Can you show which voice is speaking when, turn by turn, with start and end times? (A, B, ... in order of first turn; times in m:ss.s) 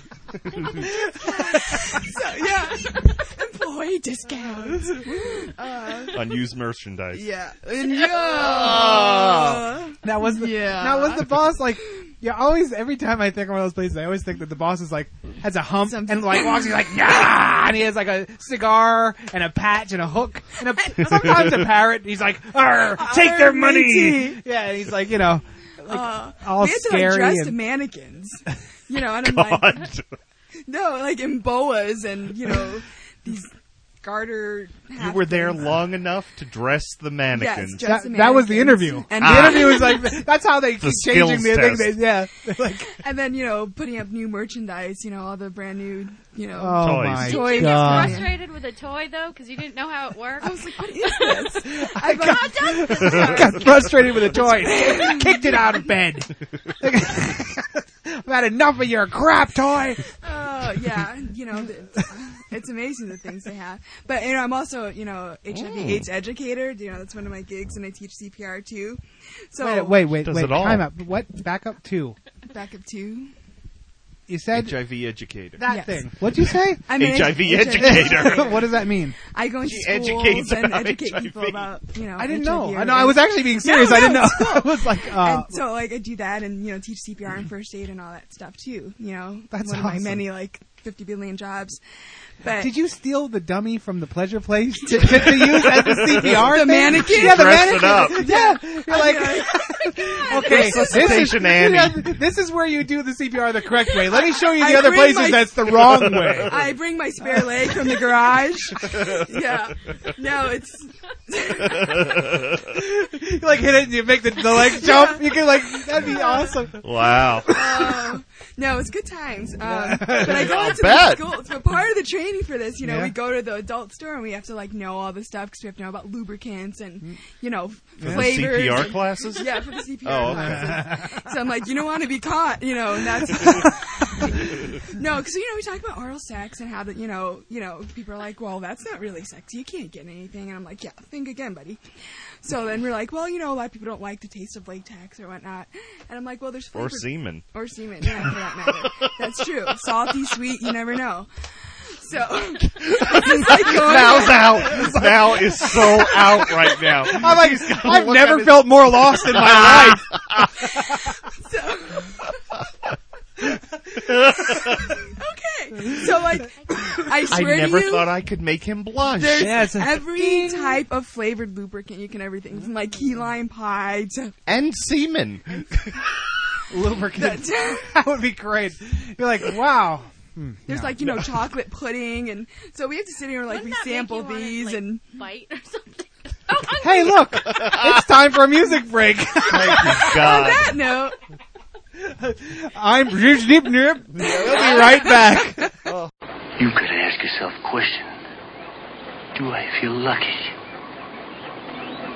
0:00.8-0:06.4 A
0:00.9-0:01.8 B
0:06.1-0:07.2 C
0:07.1-0:11.6 A
0:08.3-0:09.7 C
0:10.0-0:27.6 B
0:15.9-0:16.9 A
0:20.9-0:21.3 A
0:21.0-0:21.5 C
0:22.9-0:24.4 A
0:25.9-0:29.9 A
0:29.2-0:30.1 C
0:30.7-0:33.5 A
0:34.0-0:35.7 A
0:35.0-0:37.9 C
0:37.3-0:40.1 A
0:37.8-0:43.0 B
0:39.2-0:40.1 C
0:40.8-0:42.0 C
0:43.0-0:48.3 A
0:46.6-0:48.3 B
0:46.8-0:47.5 C
0:47.3-0:50.8 D
0:50.4-0:55.9 A
0:51.8-1:00.0 B
0:52.3-0:53.3 D
1:00.2-1:10.1 A
1:05.5-1:06.0 C
1:09.6-1:12.2 B
1:10.2-1:10.9 C
1:12.5-1:13.3 A
1:14.3-1:14.8 B
1:14.5-1:15.6 C
1:15.6-1:19.2 B
1:15.7-1:16.0 A
1:16.8-1:18.7 A
1:16.9-1:18.6 C
1:19.2-1:31.8 A
1:19.6-1:21.7 C
1:22.2-1:25.6 B
1:29.5-1:30.2 B
1:32.4-1:32.7 A
1:32.5-1:46.7 B
1:34.9-1:41.3 A
1:36.1-1:38.3 C
1:40.4-1:42.1 C
1:44.4-1:52.4 A
1:51.7-1:52.6 C
1:52.7-1:57.9 B
1:54.6-1:56.6 A
1:56.8-1:57.7 C
1:57.5-2:21.8 A
1:59.6-2:00.7 B
2:00.2-2:01.3 C
2:02.8-2:03.1 B
2:08.0-2:10.8 C
2:08.0-2:08.7 B
2:10.3-2:11.2 B
2:22.4-2:35.0 A
2:26.7-2:27.5 C
2:32.8-2:40.5 C
2:34.7-2:35.2 B
2:35.7-2:40.8 B
2:41.3-2:42.2 A
2:44.2-2:44.7 C
2:44.5-2:48.1 A
2:47.3-2:49.6 C
2:49.2-2:54.3 A
2:49.4-2:50.8 B
2:54.5-2:56.0 C
2:56.7-3:01.2 B
2:57.2-2:58.0 A
3:00.7-3:05.0 A
3:03.5-3:07.3 D
3:06.8-3:10.2 B
3:07.5-3:07.9 C
3:09.5-3:10.8 C
3:09.7-3:11.2 A
3:12.0-3:15.7 B
3:14.2-3:14.8 C
3:14.4-3:15.3 D
3:15.9-3:16.1 C
3:16.6-3:18.2 E
3:19.4-3:20.5 E